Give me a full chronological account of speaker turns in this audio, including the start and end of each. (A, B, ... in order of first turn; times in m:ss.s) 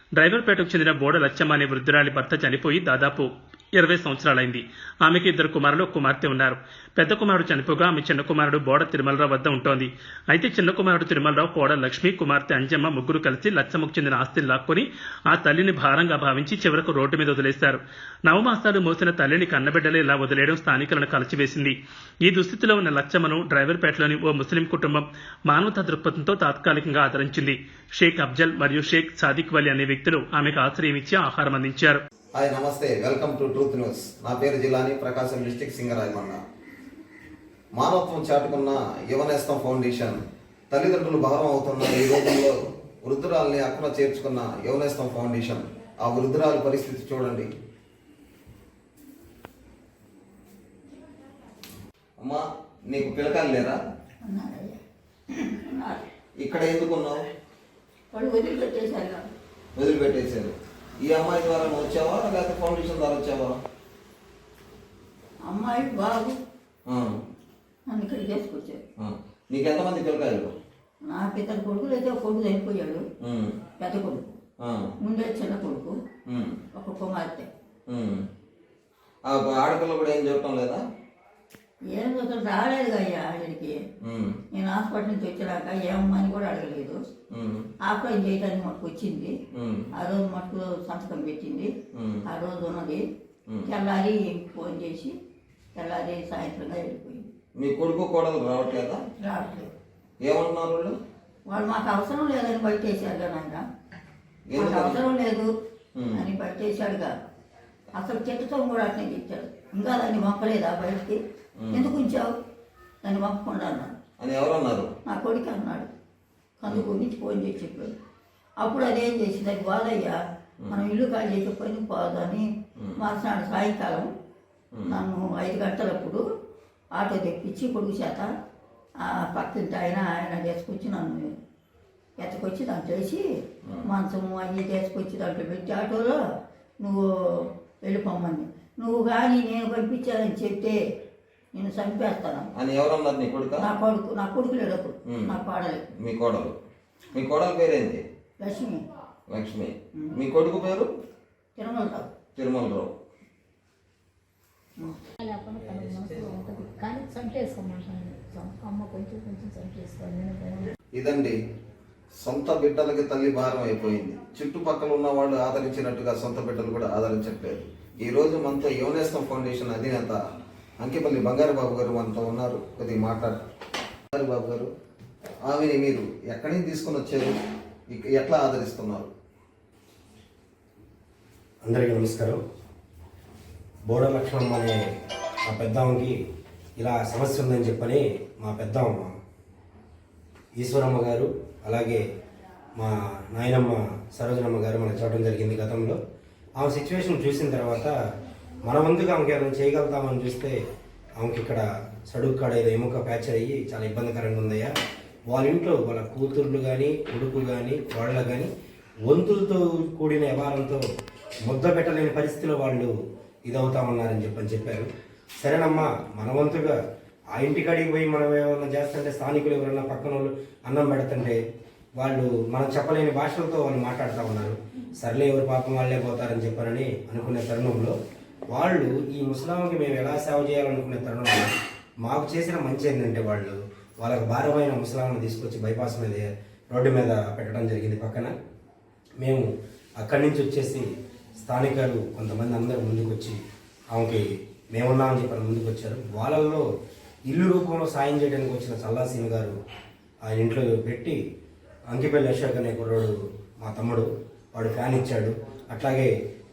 0:00.2-0:32.0 A
0:32.4-0:36.4 B
0:37.8-0:40.2 B
0:40.7-0:47.5 B
0:52.2-0:53.8 B
0:54.2-0:54.8 C
0:55.3-0:56.0 C
0:56.4-0:57.2 B
0:58.1-0:59.2 C
0:59.8-1:03.6 B
1:05.5-1:06.4 C
1:06.9-1:07.1 B
1:07.9-1:08.8 C
1:09.0-1:10.5 B
1:11.1-1:13.0 C
1:13.2-1:13.6 B
1:13.8-1:14.3 C
1:14.6-1:14.9 B
1:15.0-1:15.9 C
1:16.3-1:16.6 B
1:16.8-1:17.5 C
1:17.9-1:18.2 B
1:19.2-1:20.8 B
1:21.9-1:23.8 C
1:24.0-1:24.4 B
1:24.5-1:27.0 C
1:27.3-1:27.7 B
1:27.9-1:29.3 C
1:29.5-1:29.9 B
1:30.0-1:31.7 C
1:31.9-1:32.2 B
1:32.3-1:33.0 C
1:33.7-1:35.1 C
1:35.8-1:37.3 C
1:37.6-1:39.0 B
1:39.2-1:39.7 C
1:40.2-1:41.0 B
1:41.5-1:43.6 C
1:44.5-1:45.0 B
1:44.6-1:45.5 C
1:46.0-1:46.2 B
1:46.1-1:47.1 C
1:48.0-1:51.2 C
1:51.6-1:52.0 B
1:51.7-1:52.3 C
1:53.0-1:53.9 C
1:54.2-1:54.9 B
1:55.1-1:55.9 C
1:56.6-1:57.9 C
1:58.6-2:00.2 C
2:00.7-2:02.4 C
2:03.0-2:04.1 C
2:04.7-2:05.0 B
2:04.9-2:06.2 C
2:07.0-2:08.3 C
2:09.1-2:11.3 C
2:12.2-2:13.2 C
2:13.8-2:16.2 C
2:16.8-2:20.8 C
2:21.5-2:22.5 C
2:22.6-2:23.6 B
2:23.6-2:25.8 C
2:25.1-2:25.4 B
2:26.0-2:26.6 B
2:27.1-2:28.0 B
2:28.4-2:28.8 C
2:29.3-2:30.9 B
2:31.6-2:32.1 C
2:32.4-2:32.9 B
2:35.2-2:40.7 D
2:41.0-2:41.4 B
2:42.2-2:50.2 B
2:50.8-2:53.4 B
2:54.1-2:54.7 B
2:55.5-2:57.4 B
2:57.9-2:59.1 B
3:01.6-3:02.4 E
3:03.9-3:04.9 E
3:05.5-3:06.2 E
3:06.8-3:09.1 E
3:10.6-3:12.0 E
3:12.8-3:16.0 E
3:16.6-3:17.9 E
3:18.6-3:20.6 E
3:21.2-3:24.7 E
3:25.3-3:28.5 E
3:29.1-3:30.8 E
3:31.4-3:32.9 E
3:33.5-3:34.9 E
3:35.4-3:36.8 E
3:37.3-3:41.4 E
3:42.0-3:48.0 E
3:48.5-3:51.5 E
3:52.0-3:58.3 E
3:59.2-4:00.9 E
4:01.4-4:03.4 E
4:03.9-4:06.7 E
4:07.3-4:09.6 E
4:10.2-4:11.2 E
4:11.9-4:16.1 E